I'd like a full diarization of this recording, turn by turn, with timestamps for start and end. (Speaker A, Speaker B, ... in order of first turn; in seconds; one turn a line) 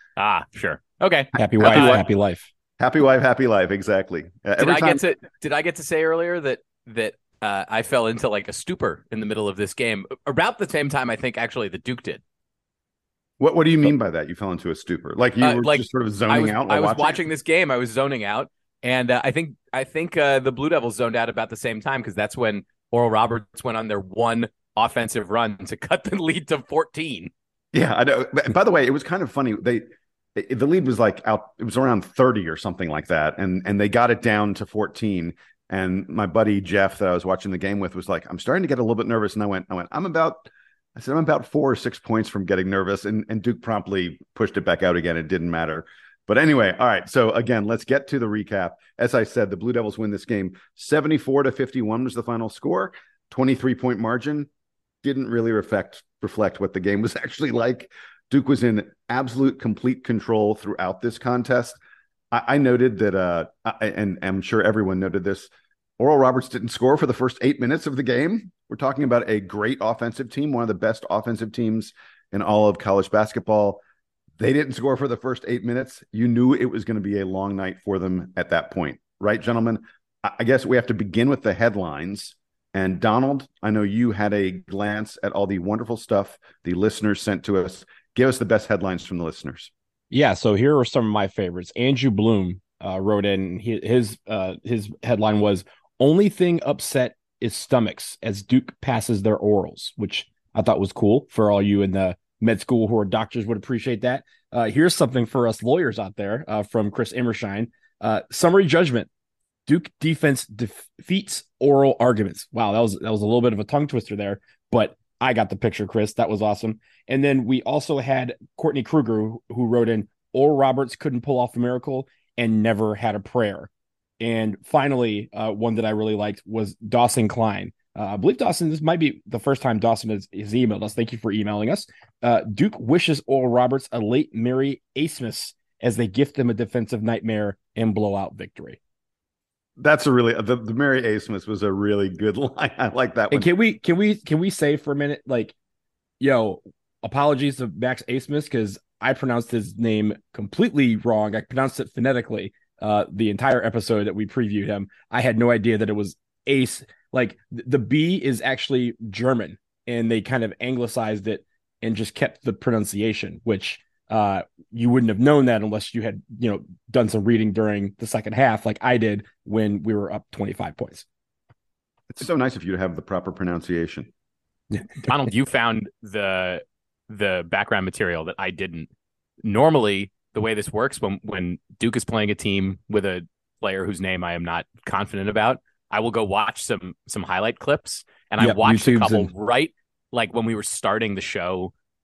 Speaker A: 0.2-2.0
Speaker B: 1.4-2.5
Speaker C: 1.6-2.0
Speaker C: 2.8-5.0
Speaker A: 4.6-12.2
Speaker C: 13.4-17.2
Speaker A: 15.4-27.3
Speaker C: 27.7-54.5
Speaker C: 55.0-61.8
Speaker C: 62.3-73.8
Speaker C: 74.4-89.7
Speaker B: 90.1-109.1
Speaker B: 109.7-123.7
Speaker B: 124.2-138.8
Speaker C: 139.8-143.5
Speaker B: 143.3-145.6
Speaker B: 146.2-171.1
Speaker C: 172.1-174.1
Speaker A: 175.0-178.9
Speaker A: 179.4-191.7
Speaker B: 188.4-189.3